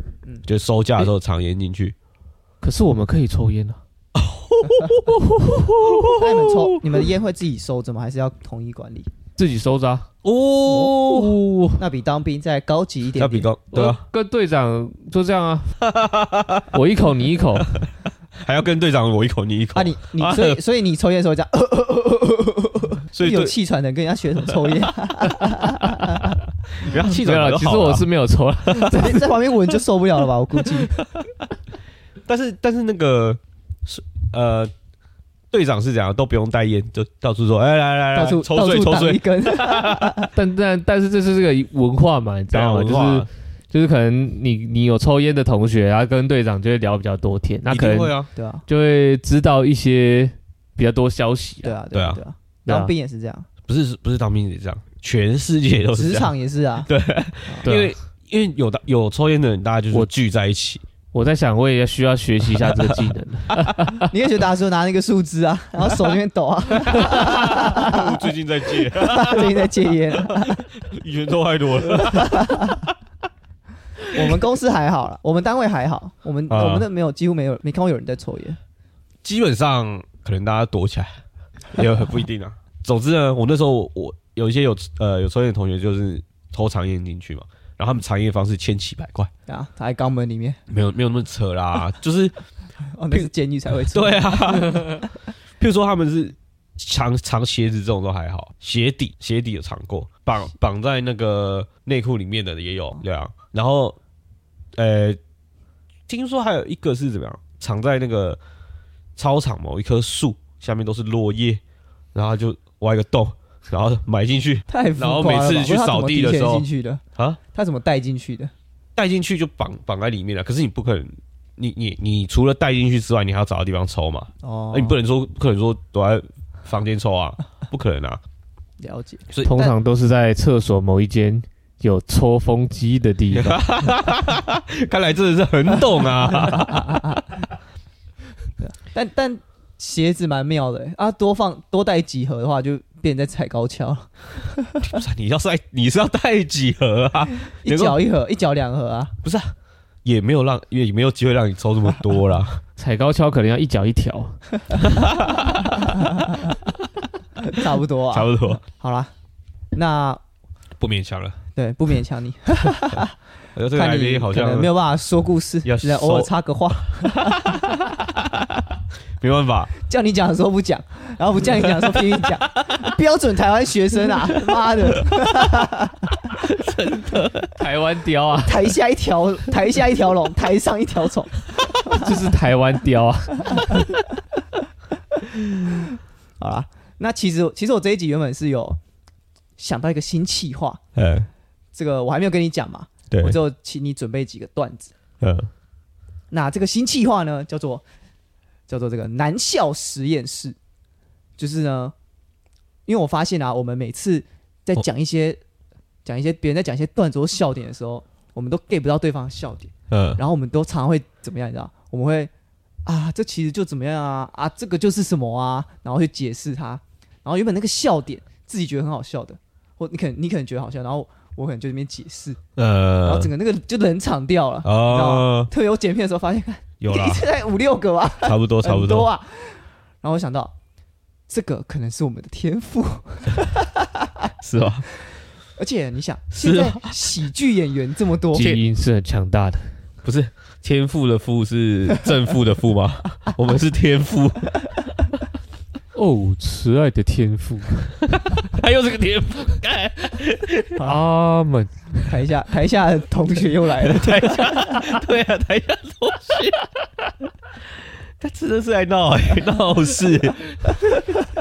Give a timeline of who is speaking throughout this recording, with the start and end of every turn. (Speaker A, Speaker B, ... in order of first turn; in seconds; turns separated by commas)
Speaker A: 0.5-1.9, Speaker B: 2.6-3.8, Speaker A: 4.2-6.8, Speaker B: 5.4-5.7, Speaker C: 6.1-9.1, Speaker B: 9.4-10.1, Speaker A: 10.2-11.4, Speaker B: 10.8-11.8, Speaker C: 11.8-13.5, Speaker A: 13.2-14.0, Speaker B: 13.7-15.8, Speaker A: 15.8-16.7, Speaker B: 16.7-17.8, Speaker A: 18.4-20.6, Speaker C: 19.8-26.3, Speaker A: 23.1-23.5, Speaker B: 26.0-26.3, Speaker A: 26.7-28.1, Speaker B: 26.9-29.3, Speaker C: 28.9-31.0, Speaker A: 32.3-34.7, Speaker A: 35.5-40.3, Speaker C: 38.1-40.3, Speaker B: 40.3-48.1, Speaker A: 42.5-43.3, Speaker A: 47.7-48.3, Speaker C: 48.4-48.7, Speaker B: 48.7-51.8, Speaker C: 51.6-53.5, Speaker A: 51.9-52.2, Speaker B: 52.7-52.9, Speaker A: 53.7-56.3, Speaker C: 56.0-56.9, Speaker A: 56.9-60.8, Speaker B: 57.6-57.9, Speaker B: 61.1-64.1, Speaker A: 62.6-63.0, Speaker C: 64.0-68.2, Speaker A: 66.9-72.9, Speaker C: 68.8-70.6, Speaker C: 72.0-72.8, Speaker C: 74.1-78.6, Speaker A: 76.5-76.9, Speaker A: 79.2-81.2, Speaker A: 81.7-89.3, Speaker C: 89.5-90.6, Speaker A: 90.7-92.4, Speaker C: 92.9-94.8, Speaker A: 93.9-95.1, Speaker A: 95.6-104.0, Speaker A: 104.8-105.2, Speaker A: 106.1-108.4, Speaker A: 109.2-111.6, Speaker A: 112.1-116.7, Speaker C: 114.7-117.0, Speaker C: 117.5-118.5, Speaker A: 119.0-128.2, Speaker C: 124.4-125.0, Speaker C: 128.8-129.7, Speaker B: 129.4-133.7, Speaker A: 133.3-137.2, Speaker C: 136.4-137.2, Speaker C: 138.6-144.9, Speaker A: 144.8-148.0, Speaker C: 147.6-149.1, Speaker A: 149.2-149.5, Speaker A: 150.1-152.6, Speaker B: 152.8-154.8, Speaker A: 154.7-156.0, Speaker C: 157.4-159.1, Speaker A: 158.1-158.6, Speaker C: 159.7-160.2, Speaker A: 160.8-161.4, Speaker C: 161.6-163.2, Speaker A: 163.6-164.7, Speaker C: 163.7-167.6, Speaker A: 165.6-166.3, Speaker A: 166.9-168.3, Speaker A: 169.2-169.7, Speaker C: 169.8-176.2, Speaker A: 176.3-177.5, Speaker B: 177.6-178.7, Speaker C: 178.4-182.2, Speaker B: 181.9-184.0, Speaker C: 186.4-188.8, Speaker C: 189.6-190.8, Speaker A: 190.9-191.3, Speaker C: 191.7-194.9, Speaker A: 193.1-193.4, Speaker A: 195.2-195.5, Speaker C: 196.3-197.8, Speaker C: 198.7-200.6, Speaker C: 201.4-201.9, Speaker C: 202.9-205.4, Speaker C: 206.1-212.3, Speaker A: 209.9-210.2, Speaker C: 212.9-222.4, Speaker A: 222.6-223.3, Speaker C: 223.0-230.5, Speaker A: 224.6-225.5, Speaker A: 226.8-227.2, Speaker A: 228.2-229.1, Speaker C: 231.3-234.3, Speaker A: 234.4-234.9, Speaker C: 235.6-238.6, Speaker A: 236.3-237.1, Speaker B: 238.3-239.7, Speaker A: 240.0-244.6, Speaker B: 245.9-248.0, Speaker A: 248.2-250.8, Speaker B: 250.8-252.1, Speaker C: 252.1-254.8, Speaker A: 253.8-256.6, Speaker A: 258.2-261.1